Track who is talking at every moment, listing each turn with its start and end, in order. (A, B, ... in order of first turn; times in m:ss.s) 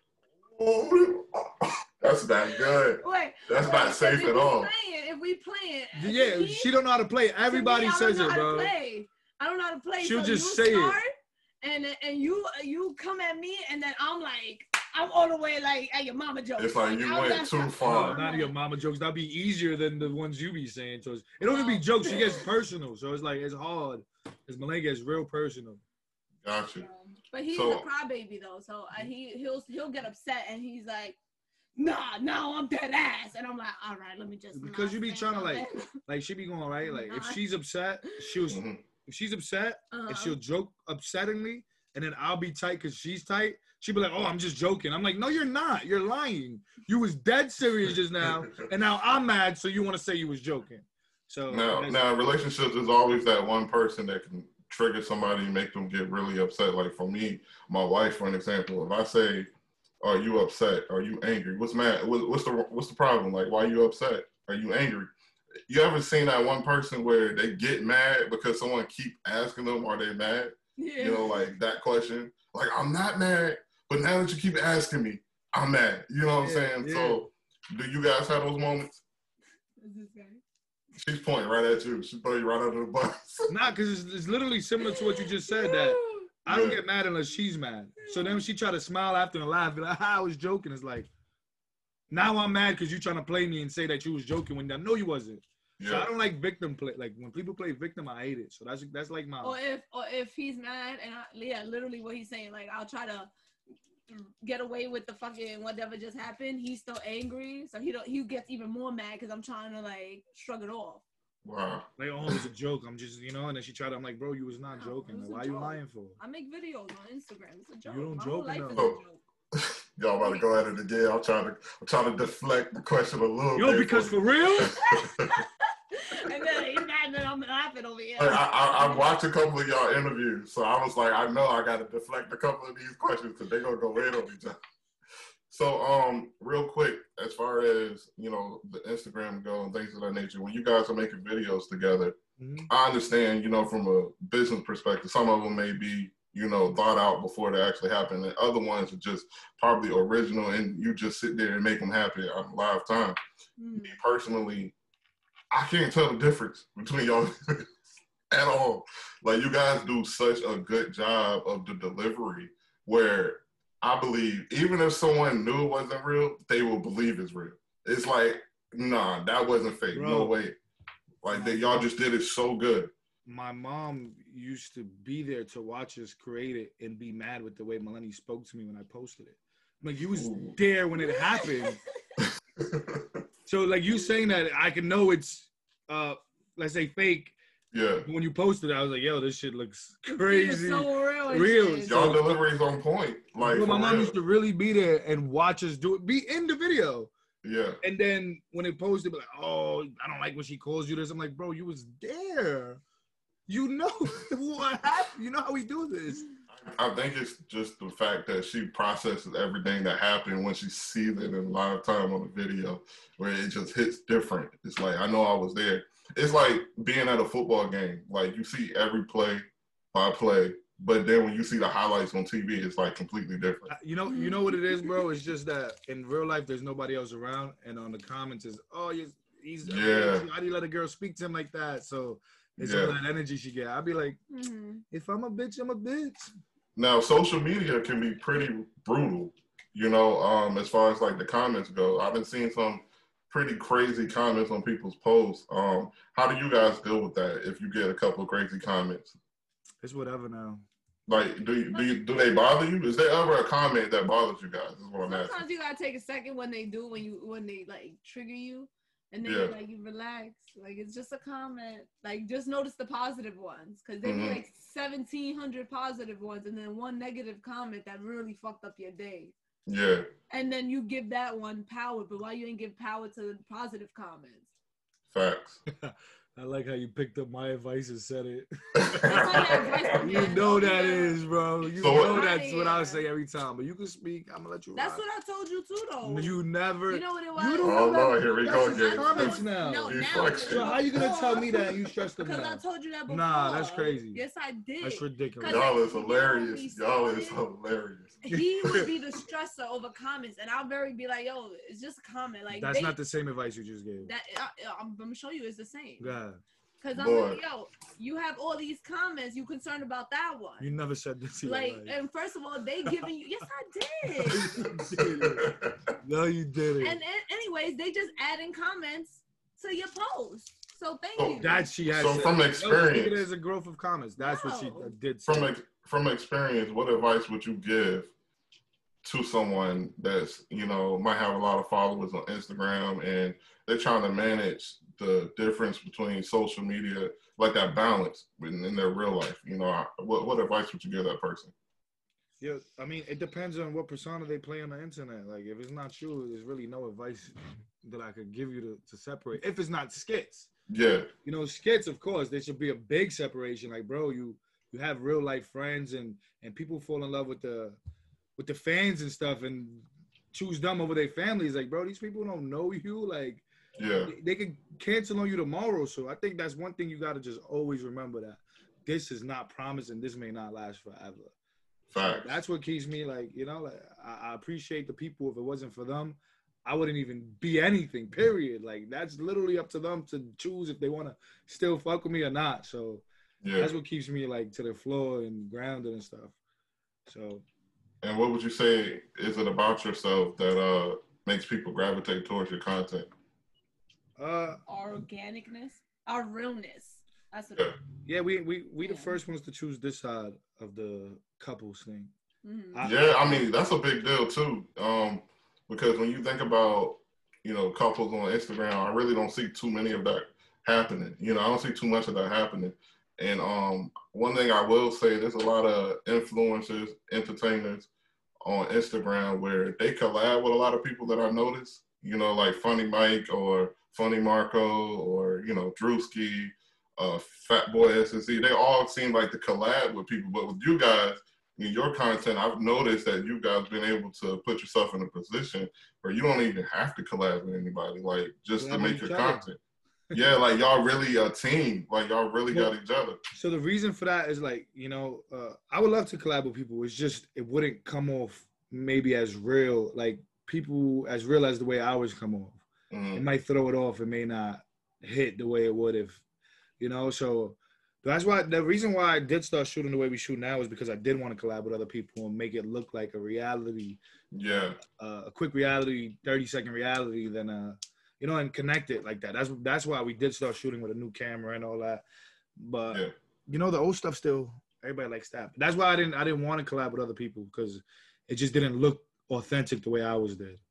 0:00.5-0:04.7 A
0:02.7-0:06.7 B
0:05.9-0:08.7 C
0:07.5-0:11.1 B
0:10.0-0:11.0 C
0:11.6-0:18.5 B
0:16.6-0:18.2 A
0:17.8-0:25.8 C
0:21.4-0:22.4 B
0:26.4-0:26.9 A
0:26.8-0:31.2 B
0:27.5-0:27.8 A
0:31.8-0:35.9 B
0:34.5-0:52.0 C
0:36.8-0:37.4 B
0:38.5-0:38.8 A
0:39.9-0:40.4 B
0:51.5-0:59.5 A
1:00.0-1:05.1 A
1:05.7-1:19.0 A
1:10.8-1:11.4 B
1:16.4-1:17.2 C
1:19.8-1:20.4 B
1:21.0-1:23.5 A
1:23.5-1:31.1 C
1:24.8-1:26.3 B
1:26.5-1:26.8 A
1:28.0-1:28.4 B
1:32.1-1:39.6 C
1:35.8-1:36.1 A
1:39.4-1:43.3 B
1:44.1-1:51.0 B
1:51.4-1:52.4 A
1:52.0-1:56.2 C
1:54.8-1:59.2 B
1:57.9-1:58.9 C
1:59.5-2:05.4 A
2:00.2-2:00.4 B
2:03.5-2:04.8 C
2:04.7-2:09.1 B
2:08.2-2:14.6 A
2:15.5-2:22.1 A
2:22.4-2:22.7 C
2:22.7-2:33.2 A
2:33.6-2:34.0 B
2:33.8-2:34.7 A
2:35.5-2:37.7 A
2:38.3-2:50.6 A
2:49.9-2:50.4 C
2:51.2-2:52.9 A
2:51.3-2:51.8 C
2:53.3-3:01.8 C
3:00.1-3:00.6 A
3:02.6-3:03.2 A
3:03.5-3:07.3 C
3:07.7-3:08.0 A
3:08.0-3:12.2 C
3:10.1-3:12.0 B
3:11.8-3:14.1 A
3:13.4-3:17.1 C
3:17.4-3:17.8 A
3:17.8-3:22.8 C
3:23.5-3:26.2 C
3:26.5-3:43.7 A
3:43.7-3:54.2 C
3:44.1-3:45.0 B
3:49.6-3:50.2 A
3:52.6-3:53.0 A
3:54.3-3:54.8 B
3:54.9-3:56.3 C
3:56.8-4:09.1 A
4:09.8-4:10.6 C
4:11.1-4:15.4 A
4:11.7-4:12.0 B
4:15.0-4:29.3 B
4:19.2-4:19.6 A
4:24.0-4:24.4 A
4:29.7-4:30.1 A
4:30.3-4:34.5 B
4:35.1-4:35.6 A
4:35.8-4:45.0 C
4:38.8-4:40.2 A
4:39.0-4:41.2 B
4:41.8-4:42.3 A
4:41.9-4:43.0 B
4:44.7-4:46.4 B
4:46.0-4:54.2 C
4:46.9-4:57.4 B
4:47.6-4:50.8 A
4:54.8-4:55.7 C
4:55.4-4:58.2 A
4:58.2-5:03.0 B
4:58.6-4:58.9 C
5:02.5-5:04.1 C
5:04.0-5:06.1 B
5:06.0-5:06.4 C
5:06.8-5:10.7 B
5:06.9-5:07.4 A
5:10.6-5:11.9 C
5:11.4-5:14.6 B
5:14.2-5:15.5 C
5:14.6-5:15.8 A
5:16.0-5:17.0 C
5:16.8-5:21.6 B
5:21.2-5:23.2 A
5:21.4-5:25.5 C
5:24.2-5:24.9 B
5:25.3-5:28.1 A
5:29.0-5:41.5 A
5:42.4-5:50.5 C
5:50.7-5:51.1 A
5:51.2-5:57.8 C
5:58.4-6:03.4 C
6:03.8-6:04.1 A
6:04.0-6:11.3 C
6:11.9-6:12.4 A
6:11.9-6:23.0 C
6:23.4-6:23.7 A
6:23.6-6:26.4 C
6:27.0-6:27.4 C
6:28.0-6:33.1 A
6:34.2-6:34.6 C
6:34.6-6:37.7 B
6:38.0-6:42.1 C
6:38.8-6:39.1 B
6:42.4-6:42.8 B
6:42.7-6:43.4 C
6:42.8-6:57.9 A
6:58.4-7:19.6 A
7:18.6-7:19.5 C
7:20.1-7:23.2 A
7:23.3-7:32.6 C
7:32.9-7:33.2 A
7:33.1-7:36.2 C
7:36.8-7:44.0 C
7:44.3-7:44.8 A
7:44.5-7:52.0 C
7:52.6-8:00.6 C